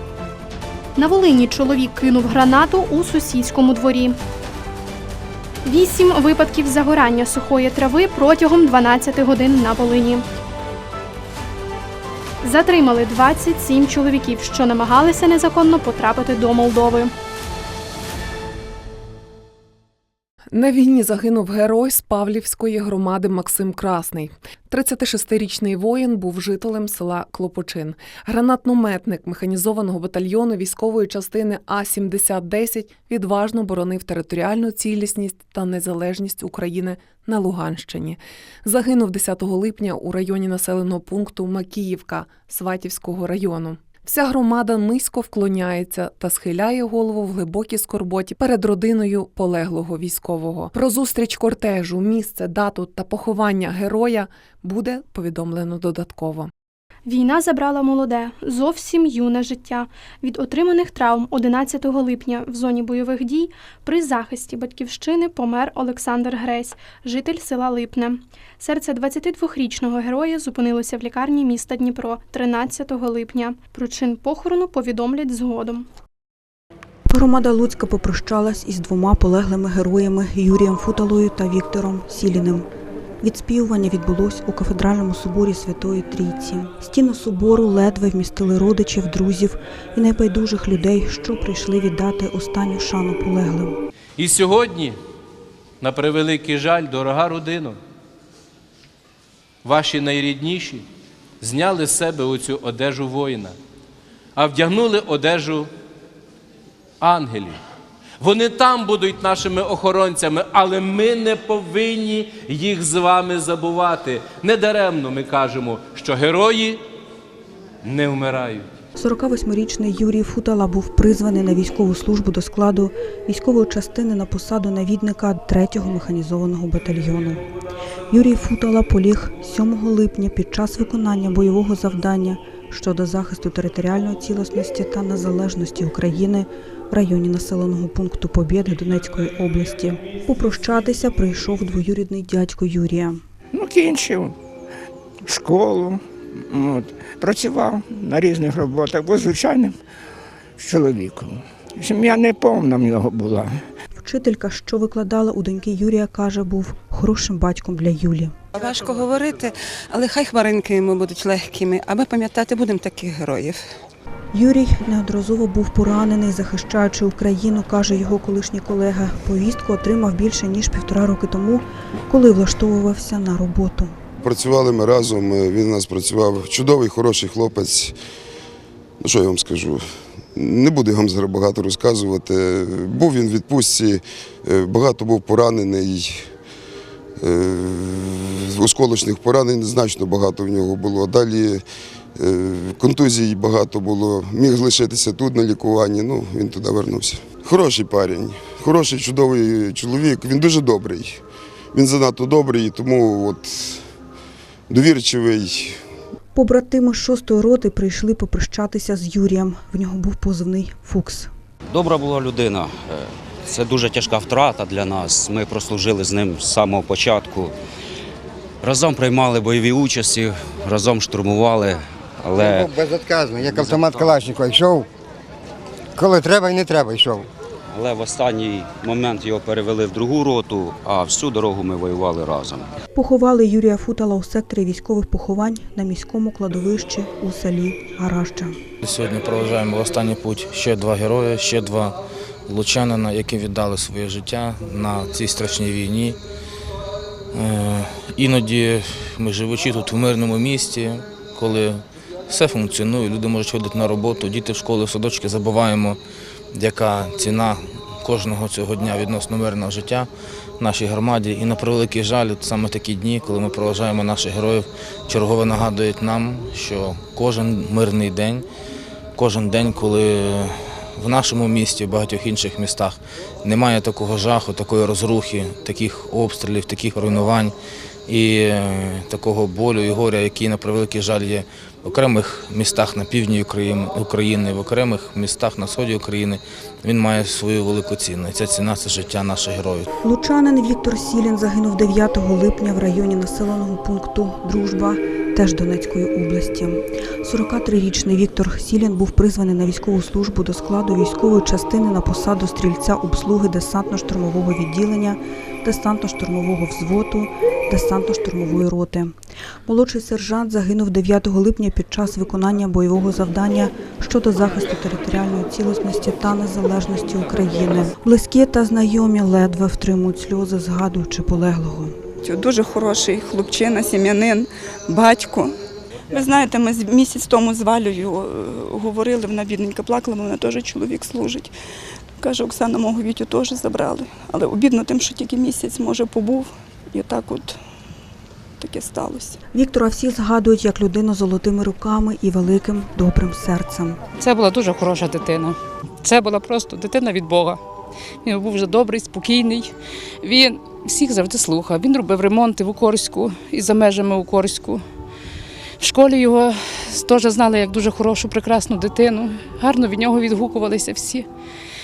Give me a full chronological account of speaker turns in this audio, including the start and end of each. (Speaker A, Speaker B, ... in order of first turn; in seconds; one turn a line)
Speaker A: 1.0-4.2
Speaker A: 5.7-10.2
Speaker A: 12.4-17.1
Speaker B: 20.5-56.5
Speaker A: 57.1-75.9
Speaker C: 77.1-82.7
Speaker C: 83.2-93.8
Speaker D: 94.2-95.0
Speaker D: 95.8-97.8
Speaker D: 99.6-100.9
Speaker D: 101.4-103.6
Speaker D: 104.3-105.7
Speaker D: 107.0-107.6
Speaker D: 108.2-116.8
Speaker D: 117.8-118.7
Speaker C: 119.0-127.4
Speaker C: 128.1-143.2
Speaker E: 143.5-144.3
Speaker E: 145.2-149.8
Speaker E: 150.6-153.6
Speaker C: 154.0-158.3
Speaker F: 158.5-163.6
Speaker C: 164.3-174.0
Speaker G: 174.2-177.9
Speaker G: 179.0-179.8
Speaker G: 180.3-186.2
Speaker G: 187.2-191.6
Speaker G: 192.2-201.2
Speaker G: 201.7-203.8
Speaker G: 204.7-205.8
Speaker C: 206.3-211.3
Speaker H: 211.7-217.5
Speaker H: 218.6-221.8
Speaker I: 222.4-224.9
Speaker H: 223.6-224.1
Speaker I: 226.0-227.3
Speaker H: 227.9-229.2
Speaker H: 229.8-232.7
Speaker C: 232.9-238.6
Speaker J: 238.8-246.2
Speaker J: 247.3-256.0
Speaker J: 256.5-268.5
Speaker J: 269.2-277.6
Speaker J: 278.1-289.9
Speaker C: 290.0-322.0
Speaker K: 322.2-325.5
Speaker K: 326.1-331.5
Speaker K: 332.2-337.6
Speaker K: 338.6-339.4
Speaker C: 339.5-344.0
Speaker L: 344.2-347.6
Speaker L: 348.2-349.7
Speaker L: 350.2-354.8
Speaker L: 355.8-361.3